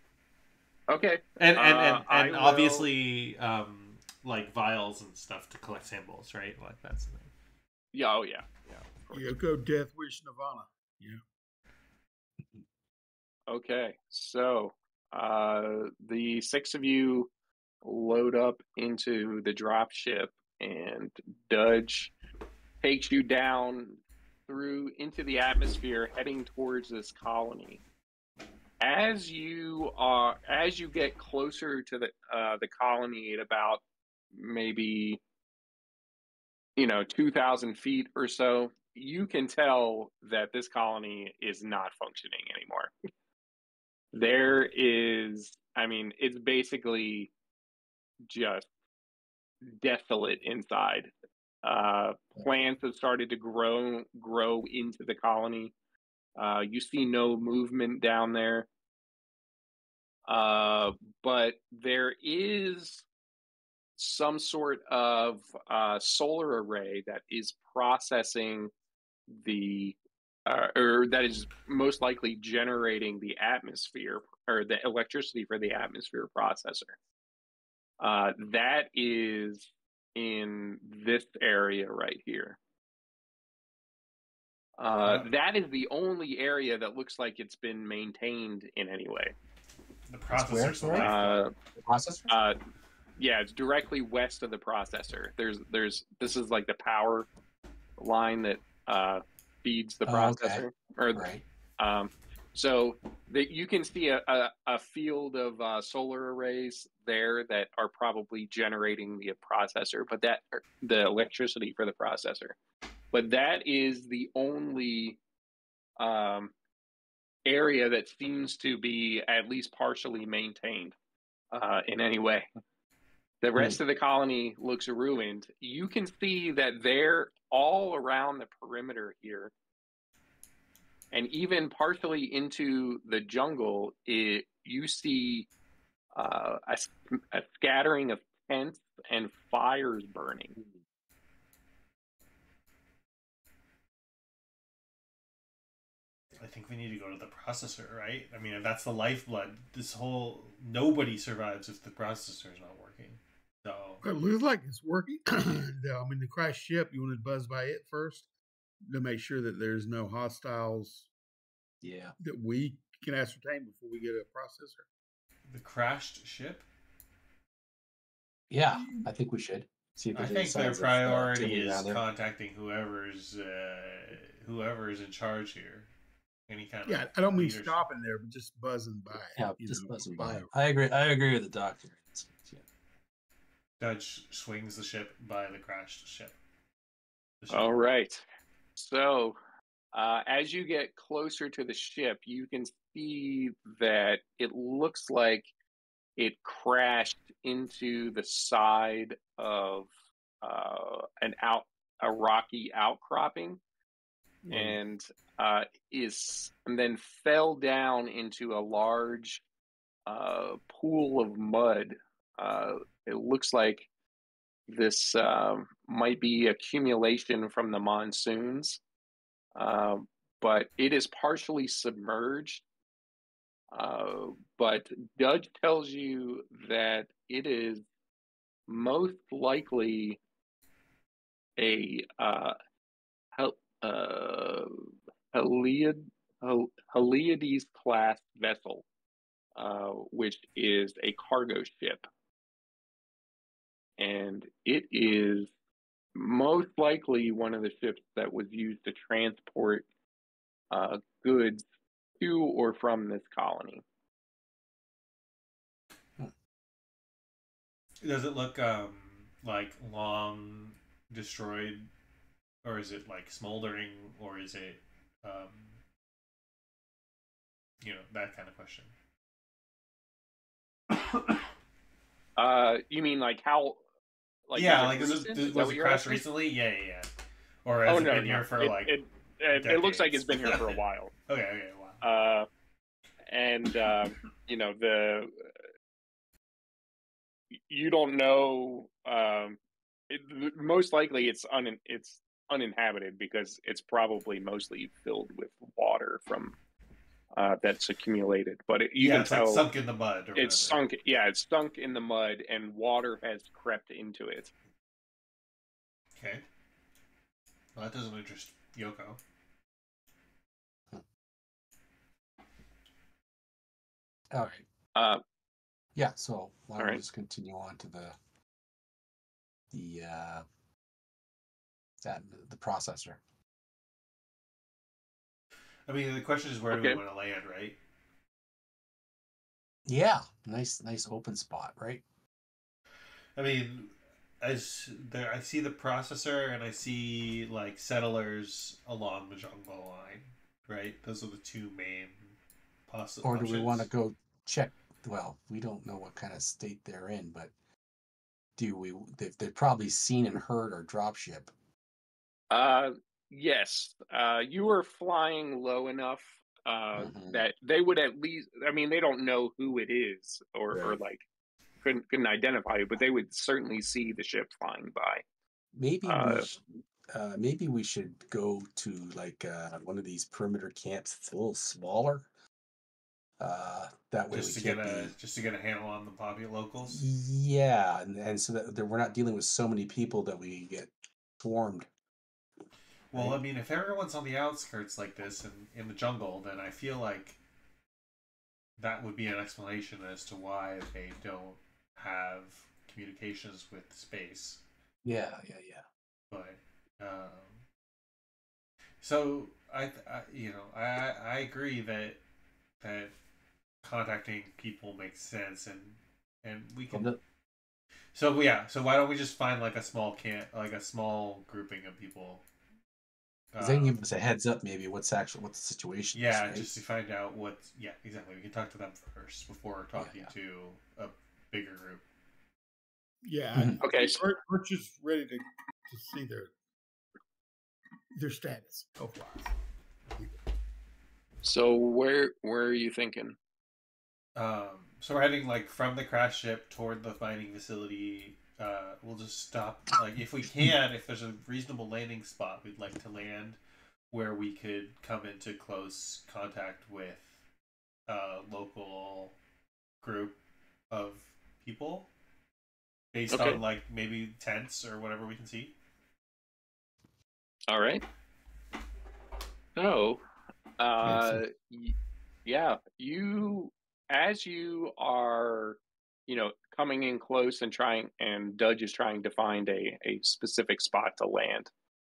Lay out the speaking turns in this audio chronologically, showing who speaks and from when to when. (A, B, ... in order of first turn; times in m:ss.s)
0:00.9-0:02.8 A
0:01.4-0:07.3 B
0:07.9-0:09.3 A
0:09.1-0:11.2 C
0:13.5-0:17.3 A
0:17.8-0:22.1 A
0:22.8-0:27.8 A
0:28.8-0:33.8 A
0:34.3-0:35.2 A
0:36.8-0:42.9 A
0:44.1-0:47.3 A
0:48.3-0:48.7 A
0:49.7-0:51.1 A
0:51.6-0:55.7 A
0:56.4-0:58.7 A
1:00.3-1:03.0 A
1:04.0-1:08.7 A
1:09.3-1:17.0 A
1:18.0-1:22.6 A
1:24.8-1:29.3 A
1:25.0-1:25.3 B
1:30.1-1:31.4 B
1:30.3-1:31.1 D
1:30.9-1:31.5 A
1:31.8-1:32.4 D
1:32.3-1:32.6 A
1:33.2-1:37.3 A
1:38.0-1:41.3 A
1:40.0-1:41.4 D
1:41.8-1:52.6 A
1:53.1-1:55.2 A
1:56.0-1:56.5 A
1:57.4-2:00.9 A
2:01.5-2:02.5 A
2:03.4-2:09.5 A
2:11.1-2:15.5 A
2:16.1-2:20.6 A
2:26.4-2:34.0 B
2:34.0-2:38.3 C
2:38.9-2:41.1 C
2:41.8-2:42.1 D
2:42.2-2:44.8 C
2:45.5-2:46.6 B
2:48.5-2:52.0 D
2:48.7-2:49.0 C
2:50.1-2:55.9 B
2:56.5-2:57.8 B
2:56.8-3:00.5 C
2:59.4-3:02.6 D
3:03.8-3:06.4 B
3:07.4-3:07.7 B
3:07.5-3:08.2 A
3:08.8-3:09.4 A
3:09.9-3:15.5 A
3:16.2-3:19.9 A
3:20.4-3:23.6 A
3:24.4-3:24.8 C
3:24.5-3:29.4 A
3:30.1-3:33.9 A
3:34.7-3:38.8 A
3:39.6-3:42.6 A
3:43.7-3:47.8 A
3:48.7-3:50.2 A
3:51.6-3:52.6 A
3:53.4-3:54.7 A
3:55.3-3:58.8 A
3:59.6-4:02.0 A
4:04.0-4:05.5 A
4:06.1-4:09.8 A
4:10.7-4:11.6 A
4:12.2-4:13.8 A
4:18.0-4:21.9 B
4:22.6-4:25.8 B
4:27.8-4:28.9 B
4:30.9-4:31.5 B
4:32.4-4:33.8 A
4:34.5-4:36.2 A
4:34.5-4:37.1 B
4:37.6-4:38.9 B
4:37.9-4:41.1 A
4:39.6-4:42.0 B
4:42.0-4:42.5 A
4:43.3-4:45.3 A
4:47.7-4:49.6 A
4:50.1-4:56.6 A
4:57.3-4:59.6 A
4:59.0-5:00.8 B
5:00.3-5:04.5 A
5:06.2-5:06.4 B
5:07.7-5:09.2 B
5:14.3-5:14.6 D
5:14.9-5:15.2 A
5:15.9-5:18.2 D
5:19.7-5:20.4 D
5:22.0-5:23.2 D
5:25.9-5:27.8 B
5:26.7-5:27.0 A
5:29.8-5:32.0 D
5:33.4-5:42.3 B
5:42.9-5:43.9 B
5:43.2-5:47.5 D
5:48.6-5:51.5 D
5:52.5-6:01.2 A
5:57.0-5:57.4 D
6:00.7-6:01.0 D
6:01.8-6:05.2 A
6:05.7-6:12.3 D
6:06.0-6:06.5 A
6:13.4-6:15.1 D
6:14.3-6:17.0 B
6:16.9-6:21.9 D
6:23.1-6:27.4 B
6:23.1-6:23.4 D
6:28.8-6:34.6 B
6:35.0-6:35.8 D
6:36.3-6:37.6 B
6:39.0-6:42.2 B
6:42.8-6:43.1 B
6:43.8-6:47.1 B
6:46.9-6:47.2 D
6:48.1-6:52.4 B
6:53.5-6:54.0 B
6:53.6-6:56.7 D
6:56.1-7:02.0 B
7:00.0-7:00.3 D
7:03.2-7:06.5 C
7:03.8-7:04.2 A
7:08.2-7:09.5 C
7:11.4-7:13.4 A
7:14.4-7:23.6 B
7:24.1-7:27.3 B
7:28.1-7:29.4 B
7:30.0-7:30.4 B
7:30.9-7:32.1 B
7:33.1-7:35.8 B
7:33.3-7:33.6 A
7:37.7-7:38.0 A
7:39.8-7:40.2 A
7:40.8-7:51.7 A
7:41.0-7:41.4 C